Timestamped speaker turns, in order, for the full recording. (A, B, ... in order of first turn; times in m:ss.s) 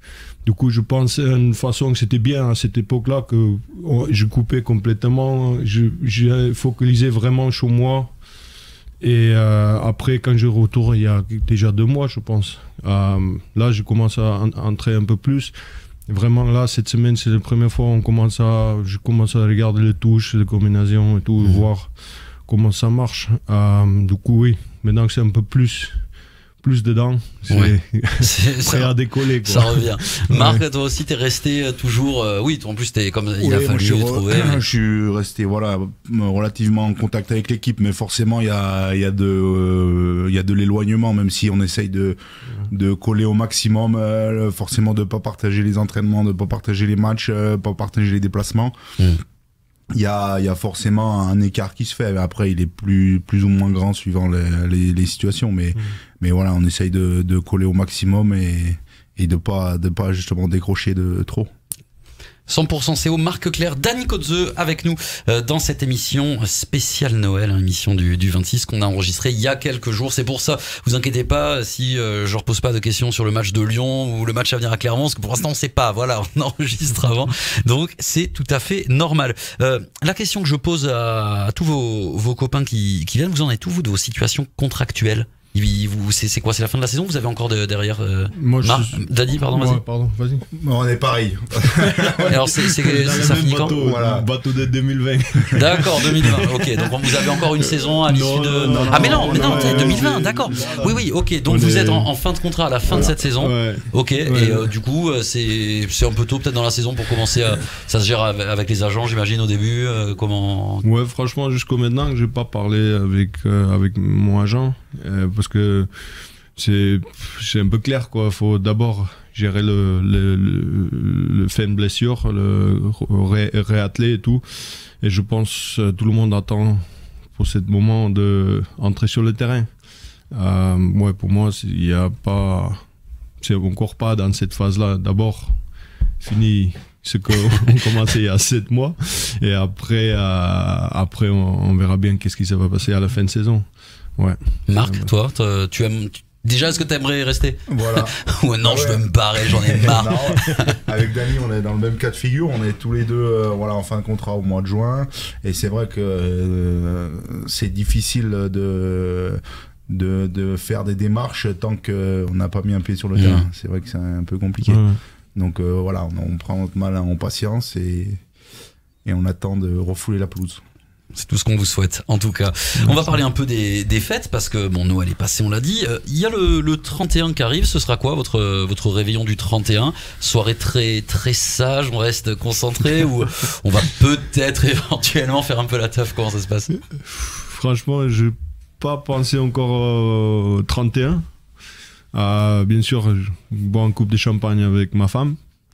0:00.4-0:08.1 A
0:09.0-0:15.5 A
0:16.1-0:21.9 A
0:21.4-0:21.6 B
0:22.4-0:26.0 A
0:26.6-0:30.6 A
0:27.5-0:34.6 B
0:33.4-0:42.2 C
0:42.7-0:48.7 C
0:49.9-1:01.5 C
1:02.5-1:29.8 B
1:28.3-1:30.5 A
1:30.5-1:32.4 C
1:31.7-1:36.7 A
1:32.3-1:33.8 B
1:33.8-1:34.3 C
1:35.5-1:50.8 B
1:38.0-1:42.1 A
1:38.8-1:40.8 C
1:42.9-1:44.7 A
1:50.8-1:55.9 A
1:56.5-2:09.7 A
2:10.3-2:12.8 A
2:13.4-2:15.6 A
2:16.2-2:23.6 A
2:24.2-2:25.1 A
2:24.7-2:30.8 B
2:27.7-2:29.1 C
2:29.7-2:44.8 C
2:43.2-2:43.4 B
2:44.6-2:45.0 A
2:45.4-2:48.2 C
2:49.0-2:50.6 C
2:51.1-3:06.7 B
2:52.8-2:53.1 A
3:07.0-3:11.2 A
3:12.1-3:15.4 A